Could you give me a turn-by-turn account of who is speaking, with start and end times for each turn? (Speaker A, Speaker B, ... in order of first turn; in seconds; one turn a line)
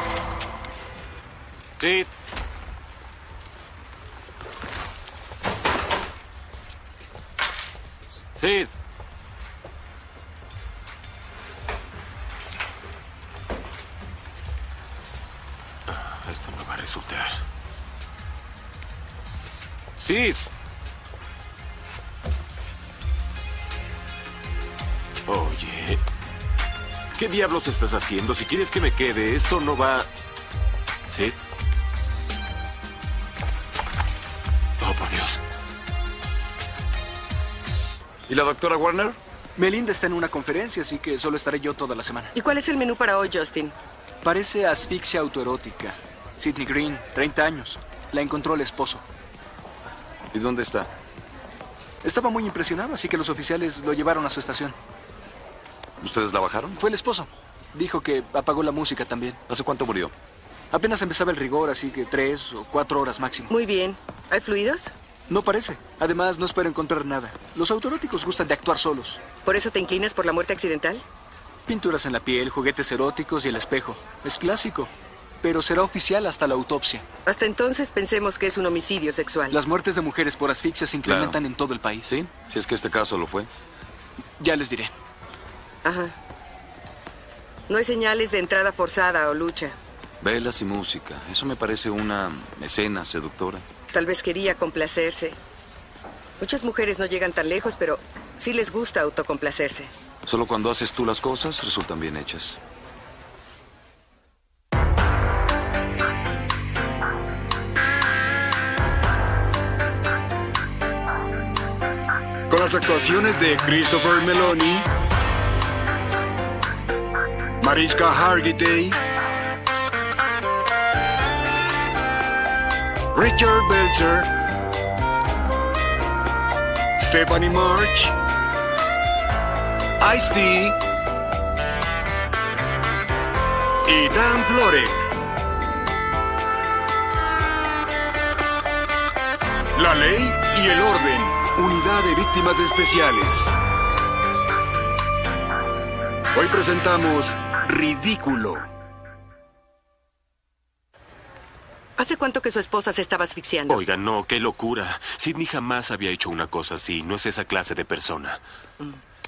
Speaker A: 1.8-2.1
Speaker A: 8.4-8.7
Speaker A: 15.9-17.4
Speaker A: 20.0-20.4
Speaker A: 25.3-26.0
Speaker A: 27.1-30.1
Speaker A: 31.1-31.4
Speaker A: 34.8-35.4
Speaker B: 38.3-39.2
Speaker C: 39.5-42.3
Speaker D: 42.3-43.7
Speaker C: 44.2-49.0
Speaker B: 50.3-50.9
Speaker C: 52.0-54.8
Speaker B: 56.0-56.8
Speaker C: 56.8-59.4
Speaker B: 59.5-60.1
Speaker C: 60.7-63.5
Speaker D: 63.5-64.9
Speaker C: 65.3-69.2
Speaker D: 69.5-71.0
Speaker C: 71.7-74.9
Speaker C: 75.4-77.0
Speaker D: 77.2-79.6
Speaker C: 79.5-82.1
Speaker B: 81.0-81.4
Speaker B: 82.0-83.5
Speaker C: 84.4-84.9
Speaker D: 85.8-86.1
Speaker D: 87.7-89.8
Speaker B: 90.2-93.6
Speaker D: 93.9-95.3
Speaker D: 96.4-99.9
Speaker B: 100.2-102.6
Speaker E: 112.5-114.9
Speaker E: 117.6-119.0
Speaker E: 123.1-124.3
Speaker E: 127.0-128.1
Speaker E: 130.0-130.8
Speaker E: 133.8-135.1
Speaker E: 139.8-143.6
Speaker E: 146.3-148.7
Speaker D: 152.0-153.8
Speaker A: 153.7-158.4